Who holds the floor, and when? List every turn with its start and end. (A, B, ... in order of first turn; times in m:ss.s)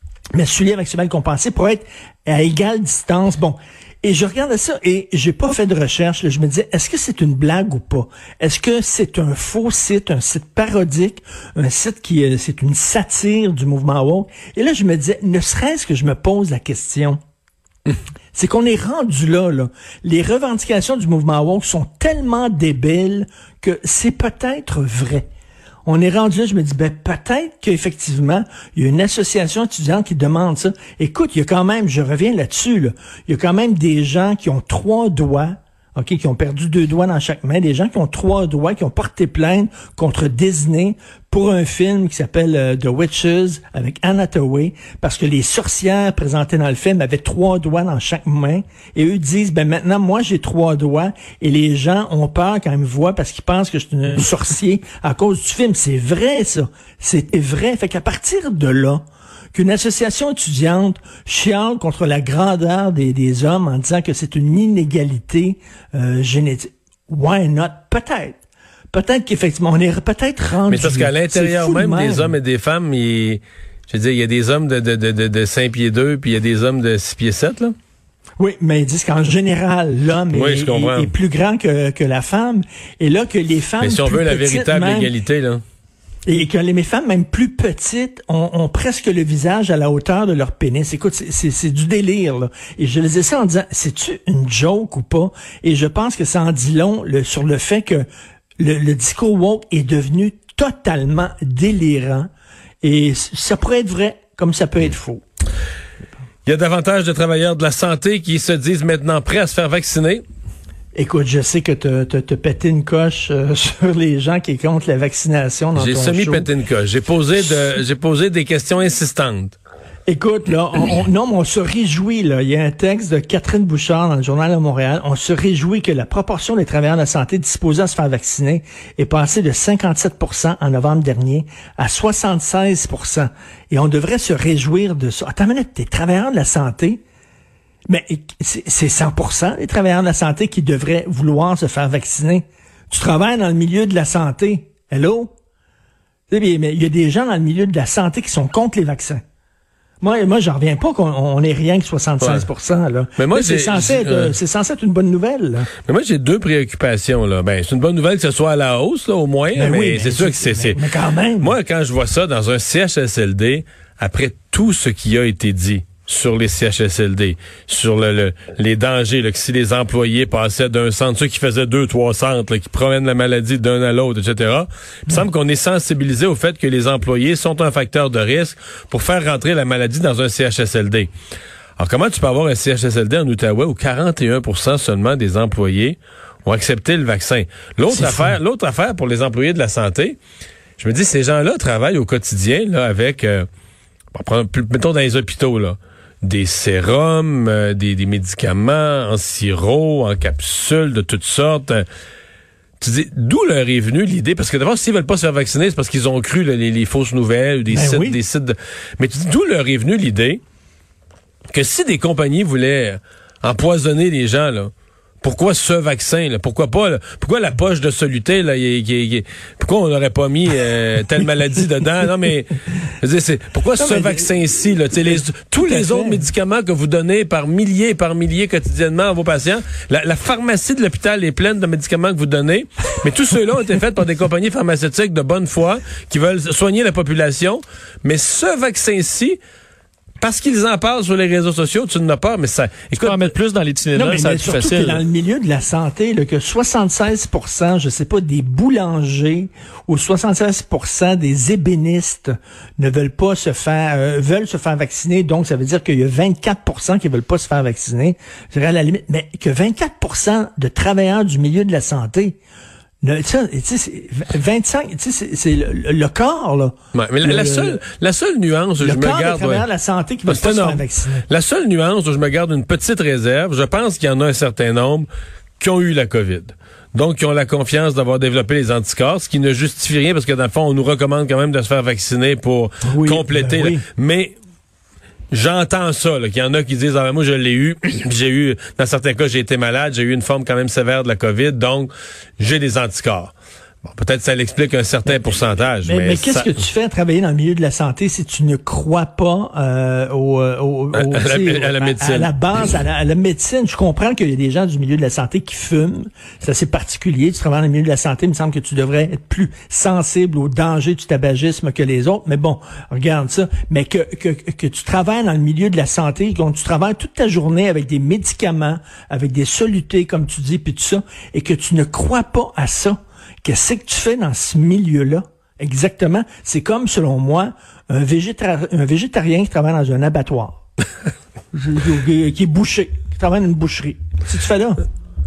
0:00.3-0:17.2 A
0:18.3-0:25.3 A
0:25.8-1:12.3 A
1:10.7-1:17.7 B
1:18.4-1:25.1 A
1:20.3-1:21.1 B
1:23.8-1:25.6 B
1:26.2-1:38.0 A
1:38.6-1:42.3 A
1:42.8-1:45.2 A
1:46.4-1:50.2 B
1:50.9-1:56.5 A
1:55.8-1:59.6 B
2:00.0-2:17.0 A
2:17.9-2:25.3 A
2:26.3-2:29.2 A
2:30.0-2:35.7 A
2:32.2-2:32.5 B
2:33.2-2:34.3 B
2:35.8-2:40.8 B
2:39.5-2:41.5 A
2:41.4-3:01.1 B
3:01.8-3:10.2 B
3:07.9-3:08.4 A
3:10.8-3:13.5 B
3:14.1-3:21.8 B
3:22.8-3:30.4 B
3:27.7-3:28.2 A
3:31.5-3:34.7 B
3:35.2-3:59.4 B
3:43.8-3:44.3 A
3:45.0-3:46.2 A
4:00.2-4:03.3 B
4:03.0-4:05.0 C
4:03.9-4:22.4 A
4:23.0-4:27.8 A
4:26.9-4:29.6 B
4:28.8-4:31.2 A
4:30.2-4:35.1 B
4:35.6-4:44.3 B
4:42.8-4:43.8 A
4:45.3-4:53.3 B
4:53.8-4:56.6 B
4:55.8-5:30.6 A
5:00.9-5:02.3 B
5:31.5-5:34.8 A